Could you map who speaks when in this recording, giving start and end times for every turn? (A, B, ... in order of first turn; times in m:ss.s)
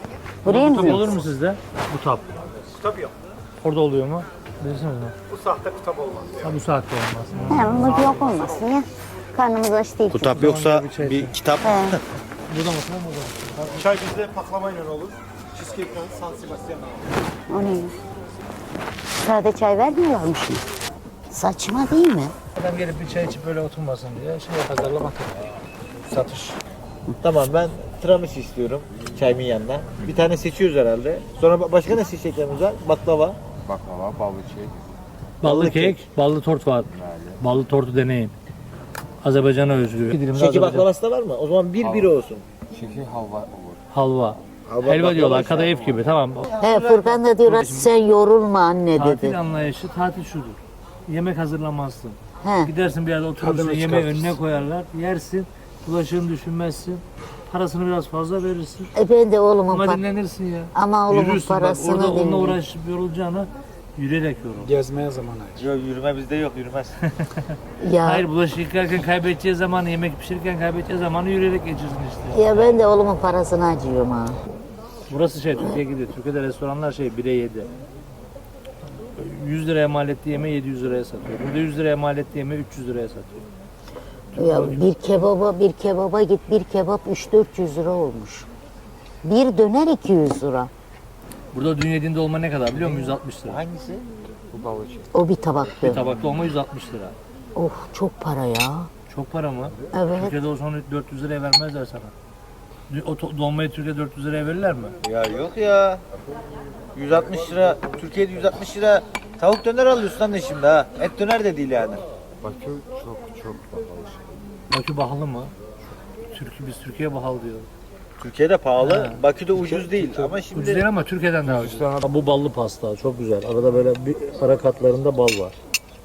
0:00.4-0:01.2 A
0:00.5-0:02.4 B
0:02.7-0:03.1 C
0:03.6-0:05.2 B
0:05.3-0:06.5 C
0:06.4-0:08.0 B
0:07.5-0:10.4 A
0:10.1-0:12.0 D
0:10.3-0:11.4 B
0:11.6-0:12.0 A
0:12.5-0:13.9 B
0:13.8-0:17.0 C
0:17.5-0:18.0 A
0:19.2-0:20.6 A
0:21.3-0:22.4 A
0:22.6-0:25.1 B
0:24.7-0:25.4 C
0:26.1-0:26.5 C
0:27.2-0:33.4 D
0:33.6-0:34.8 E
0:35.4-0:36.9 B
0:35.4-0:36.0 D
0:37.0-0:37.4 E
0:37.4-0:38.3 B
0:39.2-0:40.9 B
0:40.3-0:42.4 D
0:41.8-0:42.1 E
0:42.7-0:43.8 E
0:43.9-0:47.9 B
0:44.7-0:45.7 D
0:45.0-0:46.0 E
0:46.6-0:49.4 A
0:48.9-0:58.9 B
0:52.4-0:52.7 A
0:53.4-0:54.4 C
0:59.0-1:00.0 A
0:59.7-1:04.7 B
1:00.7-1:02.6 A
1:04.6-1:05.6 C
1:05.6-1:07.0 D
1:07.1-1:07.4 B
1:07.8-1:08.3 A
1:08.0-1:12.8 B
1:12.3-1:14.4 A
1:15.1-1:17.7 B
1:19.2-1:23.5 B
1:24.4-1:24.8 B
1:24.4-1:28.5 A
1:29.2-1:30.7 A
1:31.5-1:33.6 B
1:32.7-1:34.0 D
1:34.5-1:35.1 E
1:35.1-1:36.1 A
1:35.8-1:37.2 B
1:37.6-1:38.9 A
1:39.1-1:42.1 B
1:39.9-1:40.4 A
1:42.9-1:45.0 B
1:45.0-1:46.0 D
1:47.0-1:52.0 D
1:52.4-1:54.2 E
1:54.7-1:55.5 B
1:56.3-1:57.7 B
1:58.2-2:00.9 D
1:58.8-1:59.2 B
2:00.5-2:05.6 B